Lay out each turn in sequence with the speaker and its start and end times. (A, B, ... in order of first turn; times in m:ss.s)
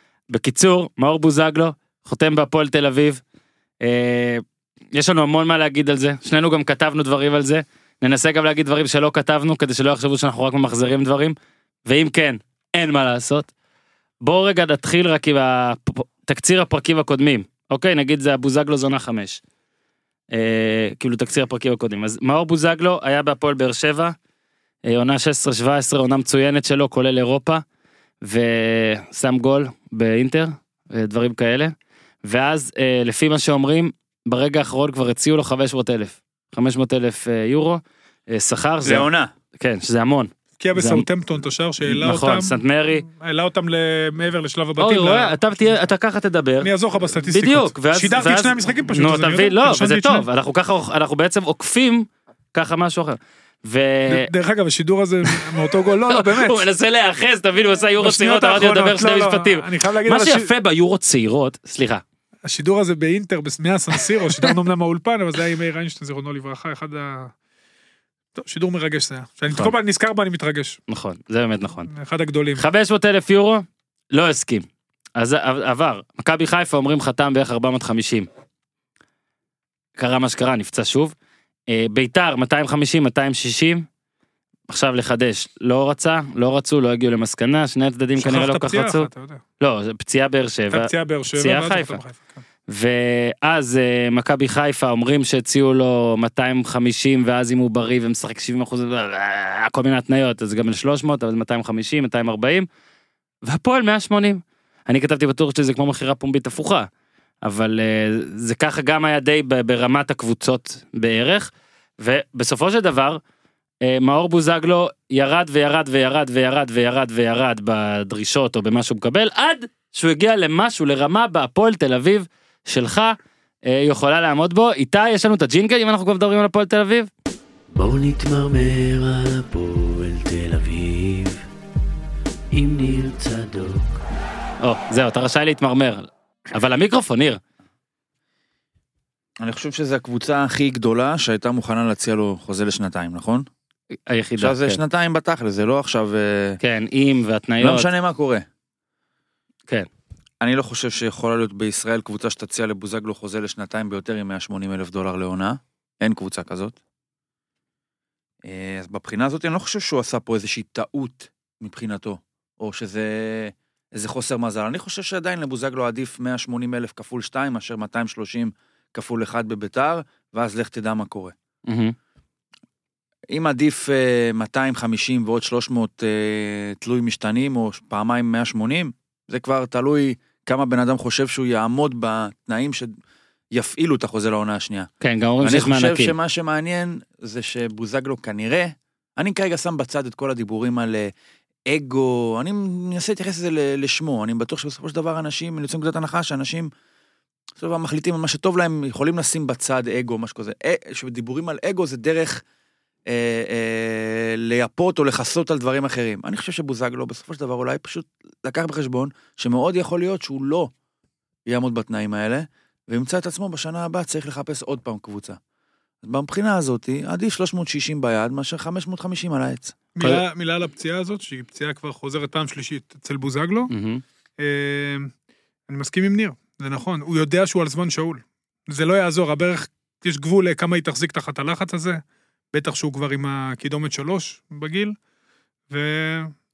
0:00.3-0:03.2 A
0:03.8-0:13.5 A
0:14.2-0:19.4 A
0:20.3-0:24.1 A
0:24.8-0:27.6 A
0:28.2-0:31.7 A
0:32.2-0:41.0 A
0:38.8-0:39.3 B
0:40.6-0:45.4 C
0:41.8-0:43.0 A
0:44.8-0:54.3 A
0:46.6-0:50.3 C
0:54.0-0:56.6 C
0:55.2-1:02.0 A
0:58.0-1:00.5 C
1:02.4-1:07.3 C
1:08.3-1:10.8 C
1:09.5-1:09.7 A
1:10.9-1:11.9 A
1:11.9-1:12.6 C
1:12.6-1:18.3 A
1:20.0-1:21.1 A
1:21.7-1:23.8 A
1:24.7-1:29.1 A
1:28.2-1:29.4 C
1:29.6-1:32.0 A
1:30.7-1:32.4 C
1:32.7-1:42.7 A
1:43.4-1:46.9 A
1:47.4-1:53.2 A
1:53.8-2:07.1 A
2:07.7-2:11.4 D
2:12.5-2:14.0 D
2:14.6-2:17.4 A
2:19.4-2:23.5 B
2:24.1-2:24.8 A
2:24.4-2:26.6 B
2:26.6-2:27.9 A
2:27.6-2:28.4 B
2:30.4-2:36.8 B
2:38.4-2:51.3 B
2:51.7-2:51.9 A
2:53.3-3:02.9 B
3:03.5-3:04.9 B
3:05.0-3:06.1 A
3:05.4-3:11.1 B
3:11.7-3:16.7 B
3:17.6-3:22.4 B
3:23.1-3:30.7 B
3:31.5-3:35.4 B
3:36.0-3:39.7 B
3:40.0-3:43.7 C
3:43.7-3:44.0 A
3:44.4-3:45.1 C
3:45.7-3:52.0 C
3:52.5-3:55.0 C
3:55.7-3:56.3 C